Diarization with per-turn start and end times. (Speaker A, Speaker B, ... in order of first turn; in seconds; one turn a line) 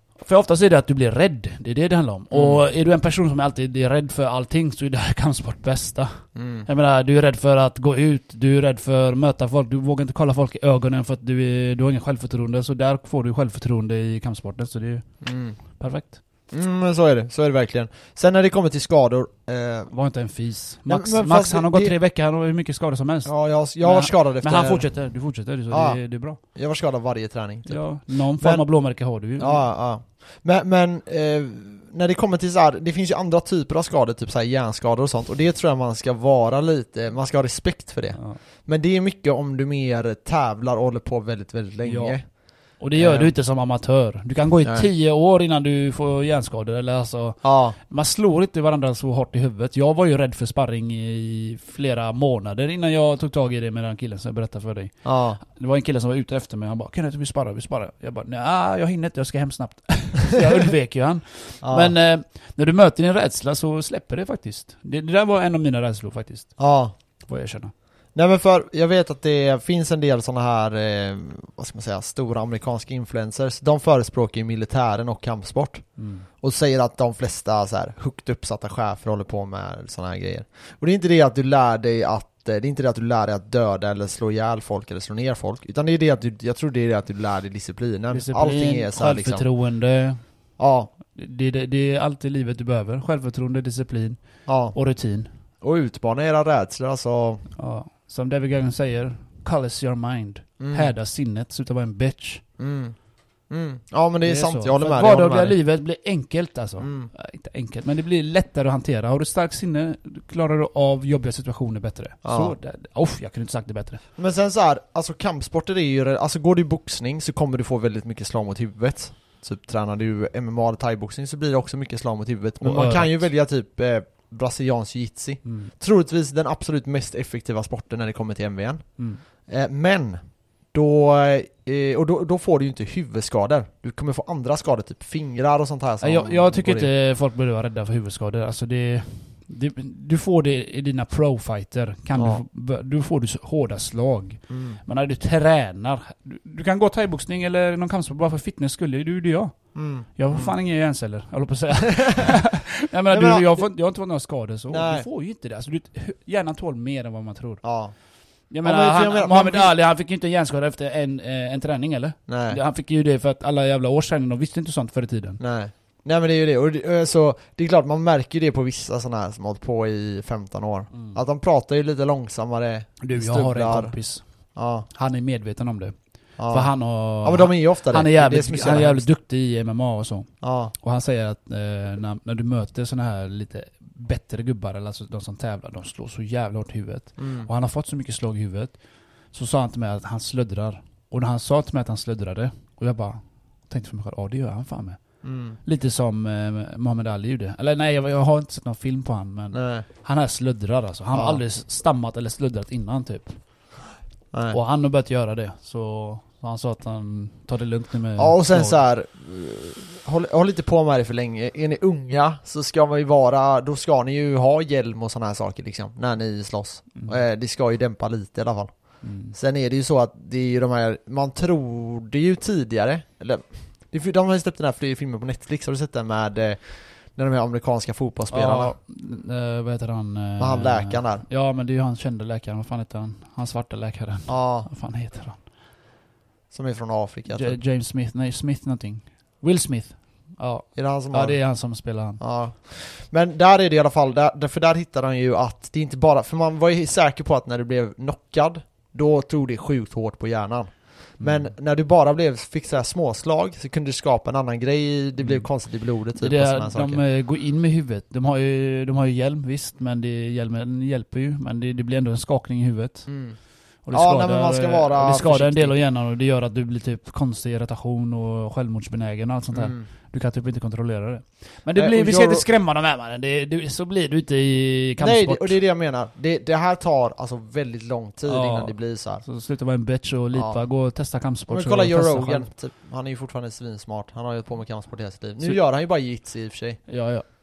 Speaker A: 0.2-15.1
Speaker B: 2.3-2.6
Speaker B: 6.3-6.7
Speaker B: 15.2-15.6
Speaker A: 15.8-16.2
Speaker B: 16.5-19.9
Speaker A: 19.9-26.4
Speaker B: 20.9-21.9
Speaker B: 23.2-24.9
Speaker B: 25.7-27.8
Speaker A: 27.7-29.6
Speaker B: 28.4-28.6
Speaker B: 29.4-42.2
Speaker A: 41.8-42.2
Speaker A: 42.8-66.6
Speaker B: 42.9-43.3
Speaker B: 47.4-47.8
Speaker B: 55.0-55.4
Speaker B: 61.6-61.9
Speaker B: 66.6-66.9
Speaker A: 67.2-67.7
Speaker B: 68.1-75.8
Speaker A: 76.0-76.2
Speaker B: 76.4-89.4
Speaker A: 88.1-90.2
Speaker B: 90.6-90.9
Speaker A: 91.1-94.2
Speaker B: 94.5-94.7
Speaker A: 94.7-95.3
Speaker B: 95.6-97.5
Speaker A: 97.5-102.4
Speaker B: 100.6-100.9
Speaker B: 102.6-102.9
Speaker B: 103.5-105.6
Speaker A: 104.2-114.0
Speaker B: 106.8-107.1
Speaker B: 112.2-112.5
Speaker B: 114.2-128.8
Speaker A: 122.6-123.3
Speaker A: 125.4-125.7
Speaker B: 129.5-136.9
Speaker A: 136.0-149.6
Speaker B: 142.2-142.4
Speaker B: 144.5-144.8
Speaker B: 149.7-150.5
Speaker A: 150.1-157.6
Speaker B: 151.9-152.4
Speaker B: 153.1-153.7
Speaker B: 154.7-155.1
Speaker B: 157.6-157.9
Speaker A: 158.5-165.4
Speaker B: 158.6-159.7
Speaker B: 162.3-162.6
Speaker B: 165.4-173.9
Speaker A: 173.0-174.2
Speaker B: 174.6-174.9
Speaker A: 174.9-175.9
Speaker B: 176.4-179.0
Speaker A: 176.5-188.7
Speaker B: 180.4-180.7
Speaker B: 187.2-187.5
Speaker A: 189.3-195.0
Speaker B: 195.2-195.6
Speaker A: 195.6-203.4
Speaker B: 199.5-199.9
Speaker B: 201.1-201.4
Speaker B: 204.3-204.6
Speaker A: 204.5-208.8
Speaker B: 208.2-218.7
Speaker A: 219.0-219.3
Speaker B: 219.3-228.7
Speaker A: 228.3-235.4
Speaker B: 230.4-231.2
Speaker B: 234.3-234.7
Speaker B: 236.5-237.6
Speaker A: 237.3-242.2
Speaker B: 240.7-241.4
Speaker B: 242.2-257.0
Speaker A: 251.2-251.5
Speaker A: 255.2-255.5
Speaker A: 256.1-263.1
Speaker B: 263.1-263.4
Speaker A: 263.8-275.6
Speaker B: 263.9-265.7
Speaker B: 269.5-269.9
Speaker B: 271.7-272.5
Speaker B: 275.0-279.2
Speaker A: 278.2-282.5
Speaker B: 280.3-280.6
Speaker B: 281.5-286.9
Speaker A: 286.9-287.3